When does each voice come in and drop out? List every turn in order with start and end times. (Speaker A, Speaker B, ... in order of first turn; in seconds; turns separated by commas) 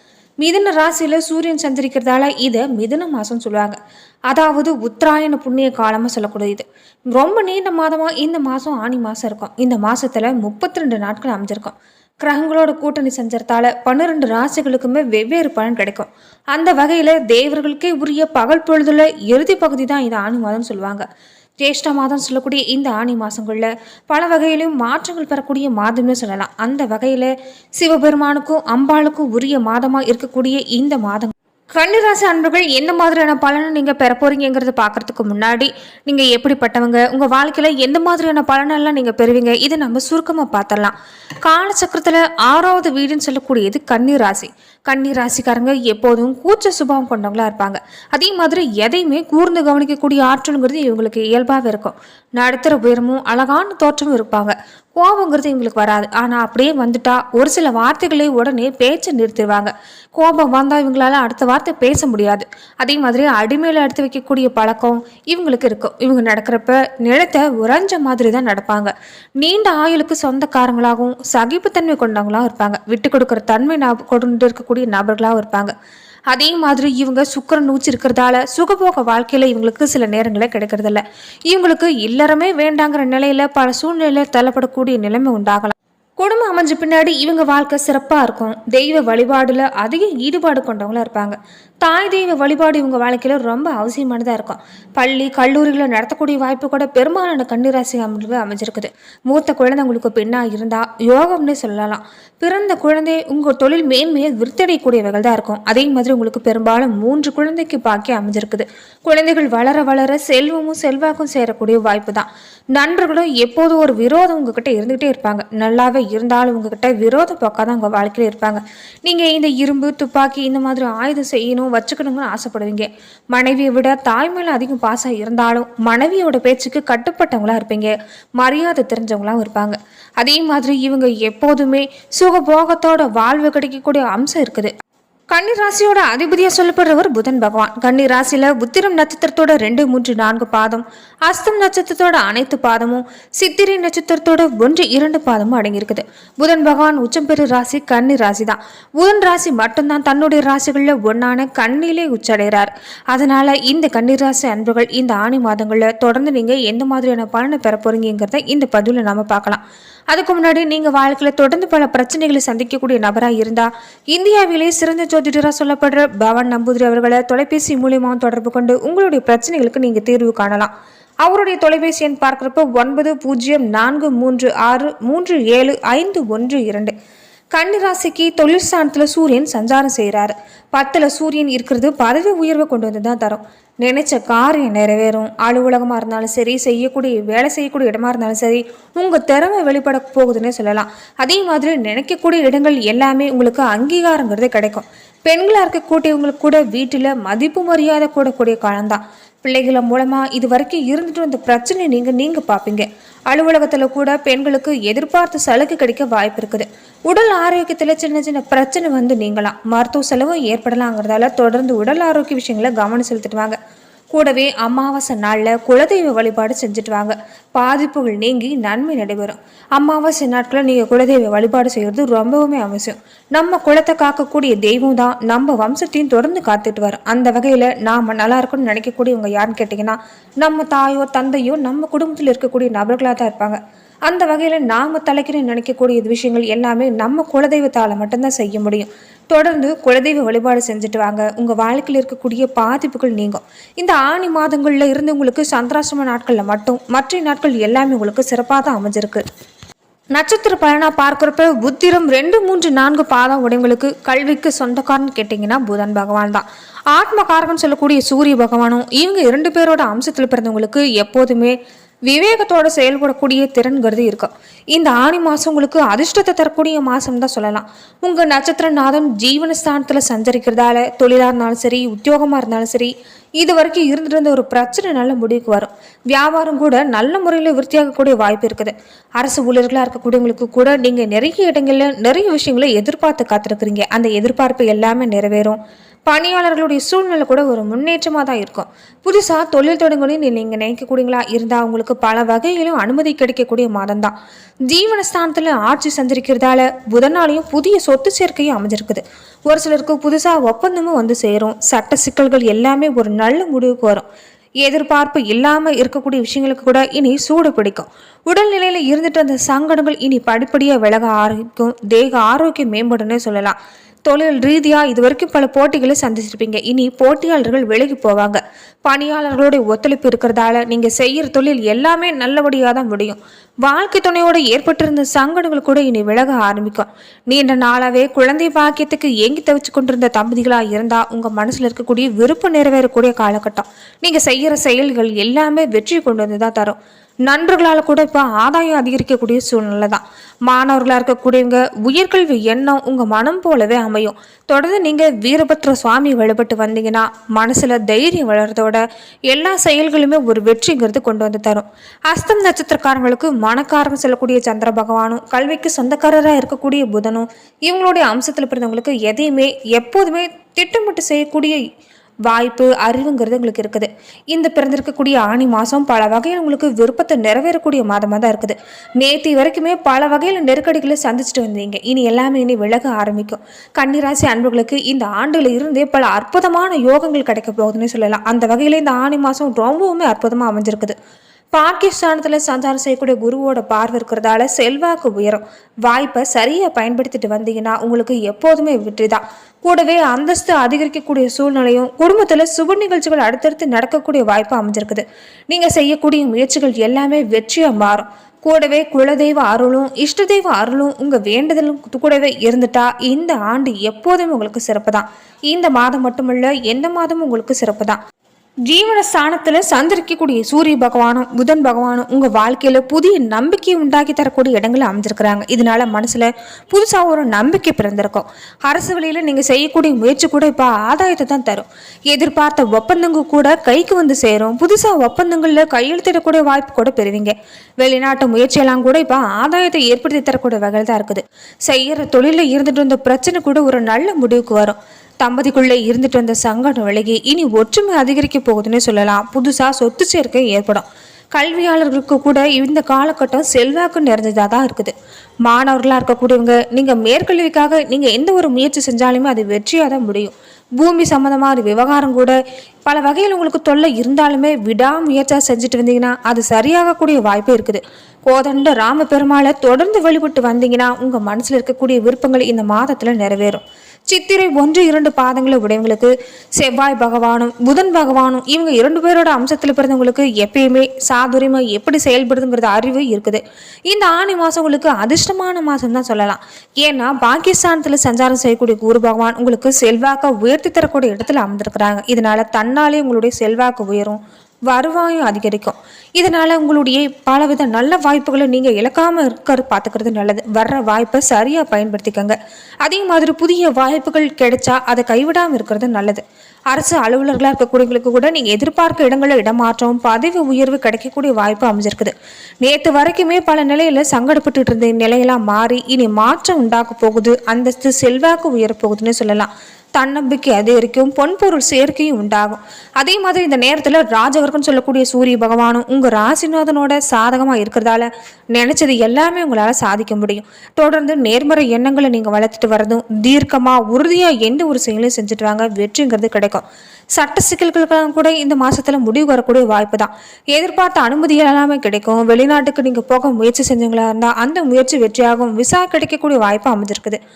Speaker A: 0.4-3.8, Speaker A: 4.3-21.1, Speaker A: 21.6-75.7, Speaker A: 76.3-134.7, Speaker A: 135.3-170.7, Speaker A: 171.2-176.9, Speaker A: 177.5-213.6, Speaker A: 214.1-249.2, Speaker A: 250.1-261.6, Speaker A: 262.1-294.1, Speaker A: 294.7-304.1, Speaker A: 304.6-313.6, Speaker A: 314.1-361.6, Speaker A: 362.3-380.9, Speaker A: 381.5-408.0, Speaker A: 408.7-444.9, Speaker A: 445.4-526.6, Speaker A: 527.1-537.2